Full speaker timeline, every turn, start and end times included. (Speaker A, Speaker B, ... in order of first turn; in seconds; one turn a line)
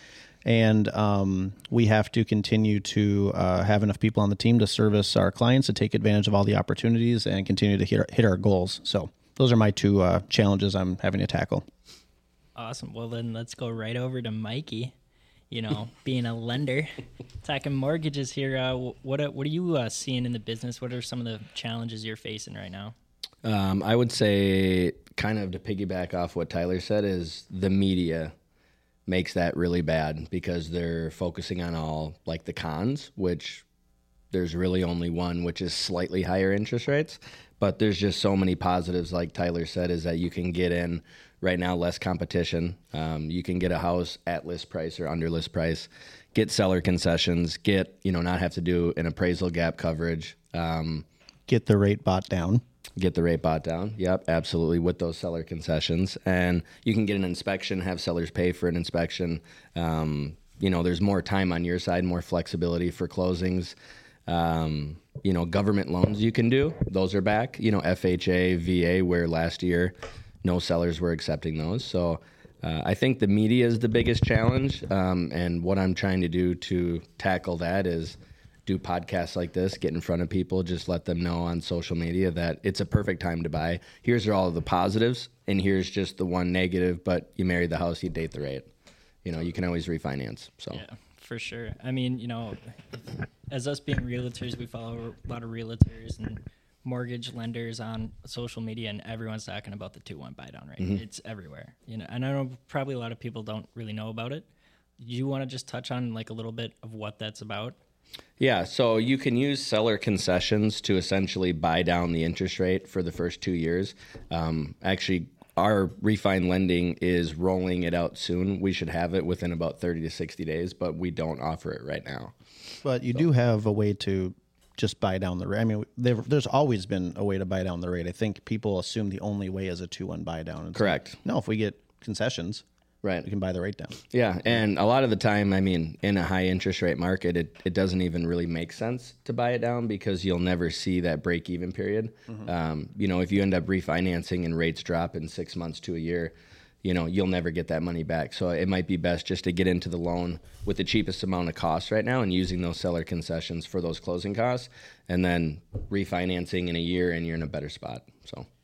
Speaker A: 0.4-11.7
Speaker B: 12.6-14.9
Speaker B: 15.5-22.9
Speaker C: 23.4-28.3
Speaker C: 29.1-33.6
Speaker C: 34.3-51.0
Speaker A: 51.5-52.6
Speaker C: 53.0-63.7
Speaker C: 64.3-88.7
Speaker C: 89.2-90.8
Speaker B: 90.7-104.5
Speaker B: 105.0-107.8
Speaker C: 108.4-122.3
Speaker A: 122.8-132.6
Speaker C: 130.7-131.2
Speaker C: 133.0-133.3
Speaker A: 133.2-134.0
Speaker C: 134.1-158.5